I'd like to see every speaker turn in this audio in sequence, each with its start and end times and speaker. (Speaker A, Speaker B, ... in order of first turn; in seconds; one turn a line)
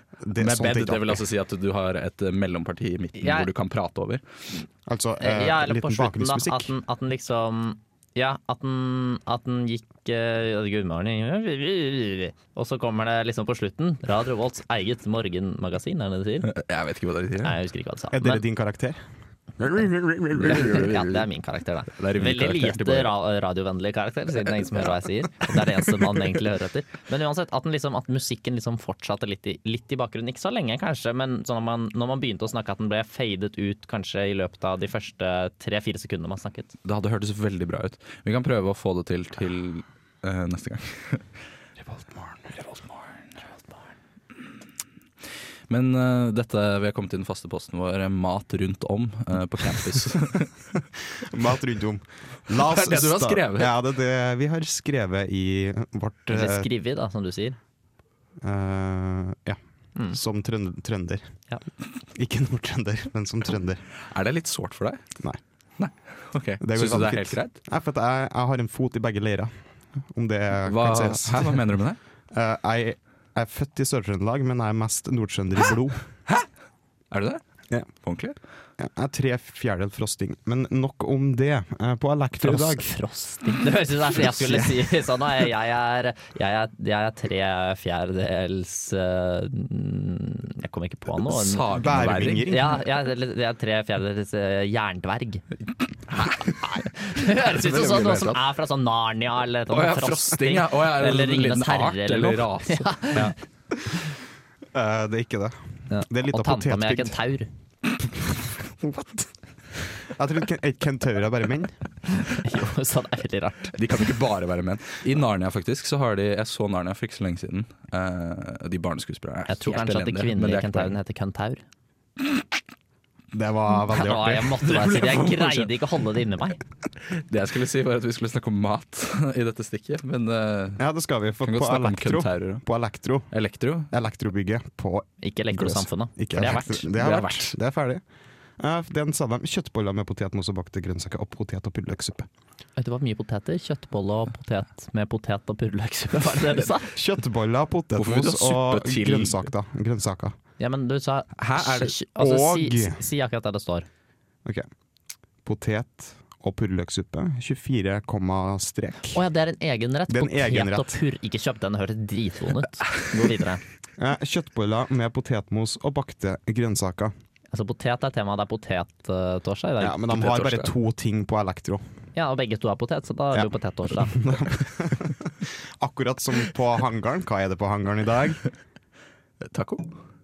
Speaker A: 0.2-1.2
Speaker B: 0.3-4.2
Speaker C: 3.2-3.5
Speaker A: 4.8-6.7
Speaker C: 5.2-16.5
Speaker B: 16.4-17.6
Speaker C: 17.4-18.4
Speaker A: 18.1-19.0
Speaker A: 19.6-20.8
Speaker B: 20.3-21.3
Speaker C: 20.4-36.7
Speaker B: 22.0-23.1
Speaker B: 36.8-41.2
Speaker B: 42.6-43.0
Speaker B: 45.7-50.5
Speaker A: 51.1-56.7
Speaker B: 52.5-53.8
Speaker C: 56.3-57.6
Speaker A: 58.4-61.2
Speaker A: 62.1-63.8
Speaker B: 64.0-65.0
Speaker B: 65.8-67.6
Speaker A: 66.6-71.6
Speaker B: 70.7-72.0
Speaker A: 72.3-76.0
Speaker B: 77.1-77.4
Speaker B: 78.0-78.3
Speaker A: 78.8-82.9
Speaker C: 82.4-95.4
Speaker B: 91.2-92.6
Speaker A: 91.7-92.8
Speaker B: 96.1-98.4
Speaker C: 96.6-103.3
Speaker B: 99.7-103.4
Speaker A: 104.7-107.1
Speaker C: 105.9-107.5
Speaker A: 108.2-109.3
Speaker A: 109.8-111.8
Speaker C: 112.4-113.8
Speaker B: 113.7-121.0
Speaker C: 119.5-121.6
Speaker A: 123.3-124.5
Speaker C: 123.9-126.6
Speaker B: 124.5-125.7
Speaker B: 127.1-130.8
Speaker A: 130.8-133.3
Speaker B: 131.4-132.6
Speaker B: 133.3-133.9
Speaker A: 133.9-138.0
Speaker C: 135.2-136.9
Speaker B: 136.4-137.5
Speaker A: 138.6-142.3
Speaker C: 142.8-146.9
Speaker A: 146.9-150.3
Speaker B: 147.9-149.5
Speaker C: 150.6-153.9
Speaker B: 151.4-151.9
Speaker A: 152.1-153.0
Speaker A: 155.4-159.2
Speaker C: 159.1-163.6
Speaker A: 160.1-161.0
Speaker A: 164.0-167.1
Speaker C: 167.5-170.1
Speaker A: 169.8-171.8
Speaker B: 170.1-170.7
Speaker C: 172.1-174.3
Speaker A: 173.3-178.4
Speaker B: 179.4-179.9